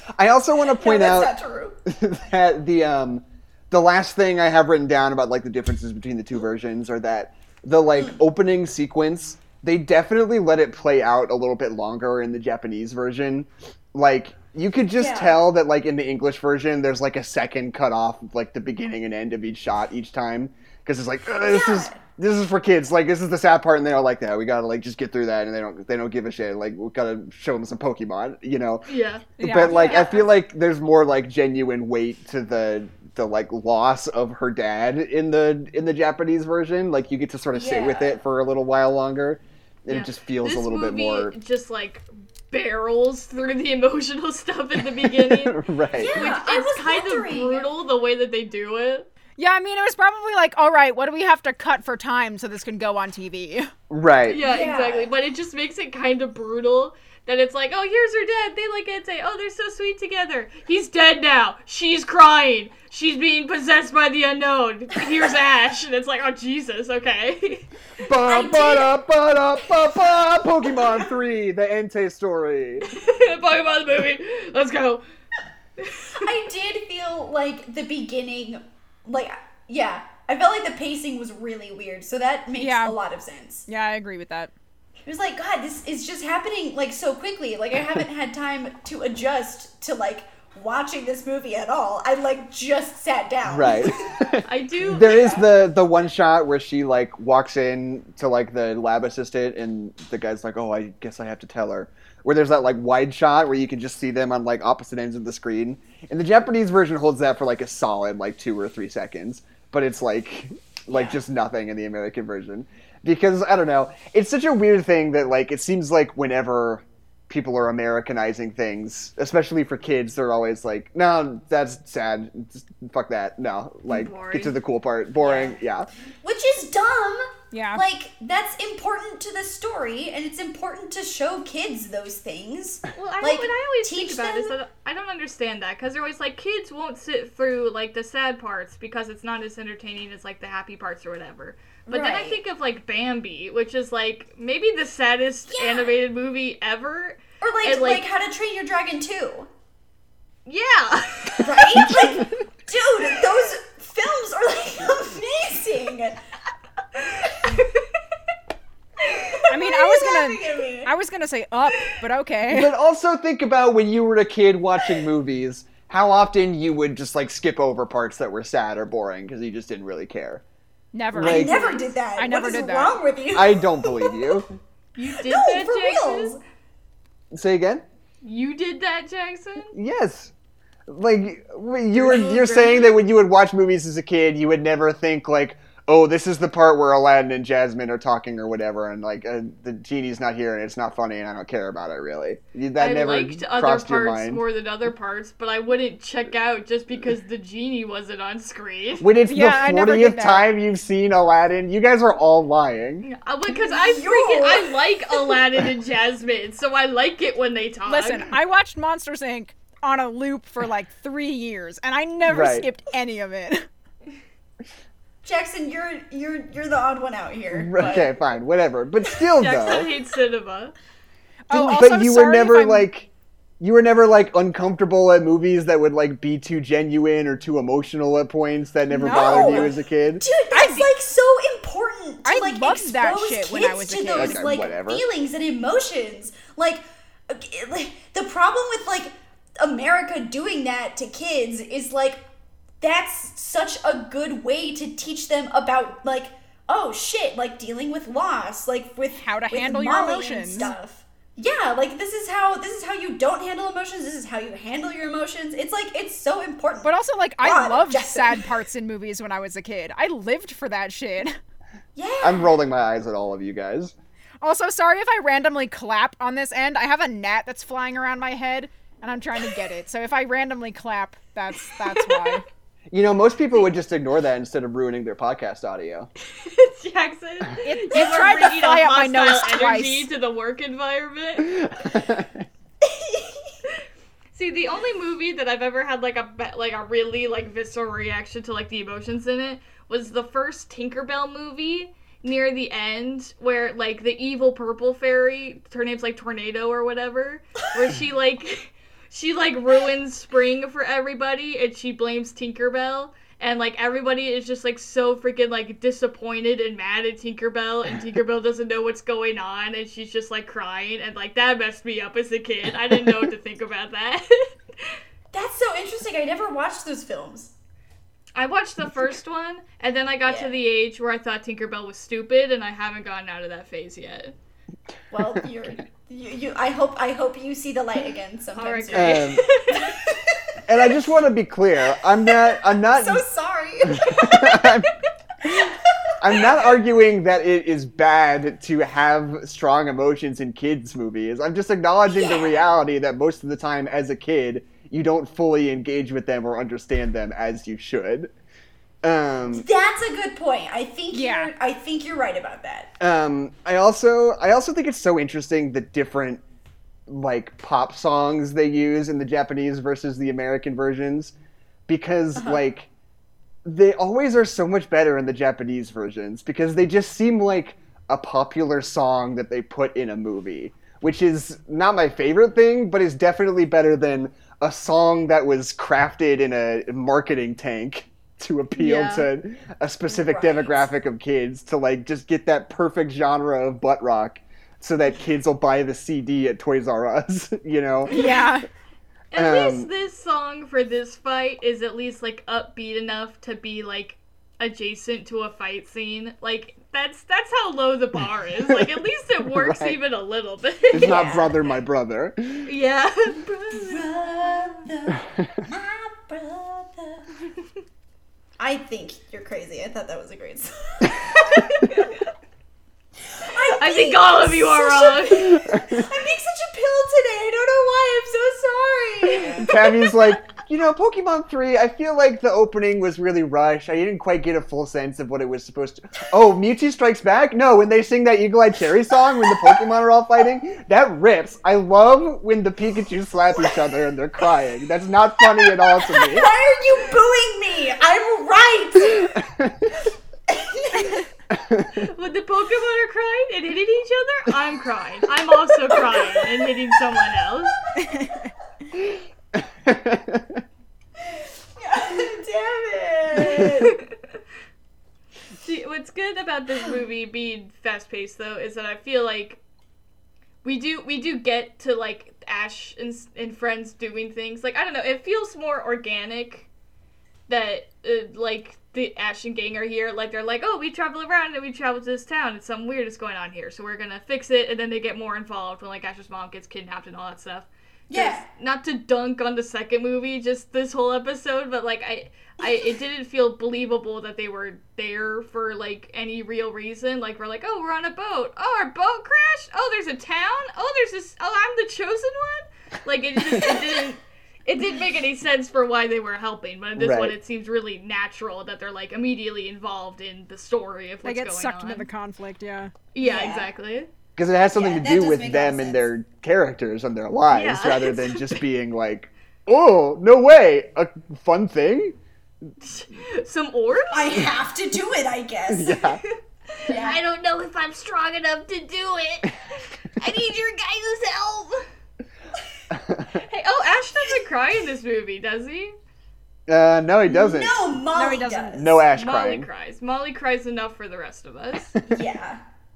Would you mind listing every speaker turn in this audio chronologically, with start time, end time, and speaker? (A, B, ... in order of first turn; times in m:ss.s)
0:00.2-0:01.3 A
0:00.7-0:01.8 B
0:01.8-0:28.8 A
0:14.9-0:15.4 B
0:21.4-0:22.0 B
0:28.9-0:29.3 C
0:29.4-0:30.1 D
0:29.4-0:41.3 A
0:29.6-0:30.3 B
0:37.5-0:38.2 B
0:39.9-0:49.1 C
0:45.0-0:46.3 A
0:45.9-0:47.7 B
0:49.4-0:53.7 D
0:53.9-0:54.4 A
0:54.3-1:07.6 C
0:54.4-0:55.1 B
1:08.0-1:12.8 A
1:08.2-1:08.9 B
1:12.9-1:15.0 C
1:15.8-1:16.2 C
1:16.2-1:23.6 B
1:22.6-1:23.0 D
1:23.7-1:24.5 D
1:25.0-1:34.2 B
1:33.4-2:05.9 A
1:34.4-1:35.4 C
1:50.9-1:51.2 B
2:03.9-2:04.5 C
2:05.2-2:05.6 B
2:06.2-2:14.6 B
2:07.5-2:07.8 D
2:12.9-2:28.0 C
2:21.9-2:22.4 B
2:25.5-2:26.0 B
2:27.4-2:29.5 B
2:30.4-2:32.0 C
2:31.4-2:36.2 B
2:37.0-2:37.8 C
2:39.0-2:40.9 B
2:39.5-2:42.7 D
2:42.5-2:50.4 A
2:50.9-2:53.0 D
2:51.1-2:51.6 A
2:51.1-2:54.4 B
2:53.3-2:54.5 A
2:54.9-2:56.4 C
2:55.0-2:56.4 B
2:57.3-2:57.8 A
2:58.2-2:59.7 C
2:59.7-3:00.3 A
3:00.9-3:14.4 A
3:02.0-3:02.8 B
3:02.1-3:02.7 C
3:12.8-3:19.0 C
3:19.0-3:23.1 A
3:19.2-3:20.5 D
3:23.0-3:28.3 C
3:23.5-3:25.4 B
3:27.9-3:33.6 D
3:32.3-3:32.7 A
3:35.2-3:38.1 B
3:37.5-3:39.9 A
3:39.4-3:40.7 C
3:41.5-3:42.9 D
3:41.5-3:43.1 A
3:43.6-3:50.2 A
3:48.9-3:49.7 D
3:49.0-4:02.2 B
3:50.5-3:50.9 D
3:52.2-3:54.4 D
3:54.1-3:55.0 A
4:02.8-4:18.4 B
4:09.2-4:10.7 D
4:16.8-4:21.4 D
4:21.9-4:22.5 B
4:22.2-4:23.9 A
4:24.4-4:32.4 D
4:31.8-4:32.4 C
4:32.9-4:36.1 A
4:36.4-4:41.7 C
4:37.6-4:40.1 D
4:41.6-4:42.4 A
4:42.8-4:43.4 B
4:44.3-5:15.0 C
5:15.3-5:17.5 B
5:18.3-5:24.3 C
5:20.2-5:20.5 B
5:25.1-5:30.4 B
5:28.5-5:30.0 C
5:28.9-5:29.4 A
5:30.7-5:33.2 A
5:32.6-5:34.7 B
5:33.9-5:34.9 A
5:35.4-5:36.4 B
5:35.4-5:48.3 A
5:42.1-5:42.6 B
5:49.0-5:49.6 A
5:49.5-5:52.9 B
5:51.1-5:51.5 D
5:53.0-5:56.4 A
5:57.1-6:01.3 A
6:01.9-6:02.9 A
6:02.4-6:02.6 B
6:03.6-6:28.3 A
6:18.8-6:19.3 C
6:20.1-6:20.9 B
6:28.1-6:28.6 D
6:29.3-6:41.4 C
6:29.3-6:29.9 A
6:38.6-6:40.0 A
6:40.9-6:42.7 A
6:40.9-6:41.5 B
6:42.6-6:44.7 C
6:43.7-6:47.2 B
6:48.6-6:52.2 B
6:51.4-6:52.0 C
6:53.3-7:00.2 B
6:53.7-6:55.6 C
6:55.6-6:56.0 A
6:59.3-7:16.5 A
7:15.5-7:19.3 B
7:19.2-7:19.9 A
7:20.5-7:21.2 B
7:21.5-7:22.0 A
7:22.0-7:27.8 C
7:25.9-7:26.7 B
7:28.0-7:28.5 D
7:28.9-7:30.6 A
7:31.2-7:34.0 B
7:33.4-7:34.1 C
7:35.6-7:39.6 C
7:40.6-7:46.7 C
7:47.5-8:22.1 C
7:58.1-7:58.4 B
8:13.6-8:13.9 B
8:17.0-8:17.4 A
8:21.2-8:22.9 D
8:23.1-8:24.1 C
8:23.2-8:23.7 B
8:24.4-8:32.2 A
8:24.7-8:26.1 B
8:27.5-8:28.6 C
8:32.8-8:34.5 C
8:34.1-8:36.0 B
8:35.7-8:36.2 A
8:36.2-8:41.8 C
8:36.8-8:37.2 B
8:42.9-8:43.4 A
8:43.3-8:45.9 C
8:46.7-8:47.8 A
8:47.3-8:49.0 B
8:48.1-8:49.0 D
8:48.8-8:49.7 A
8:49.1-8:51.9 C
8:52.0-8:52.6 B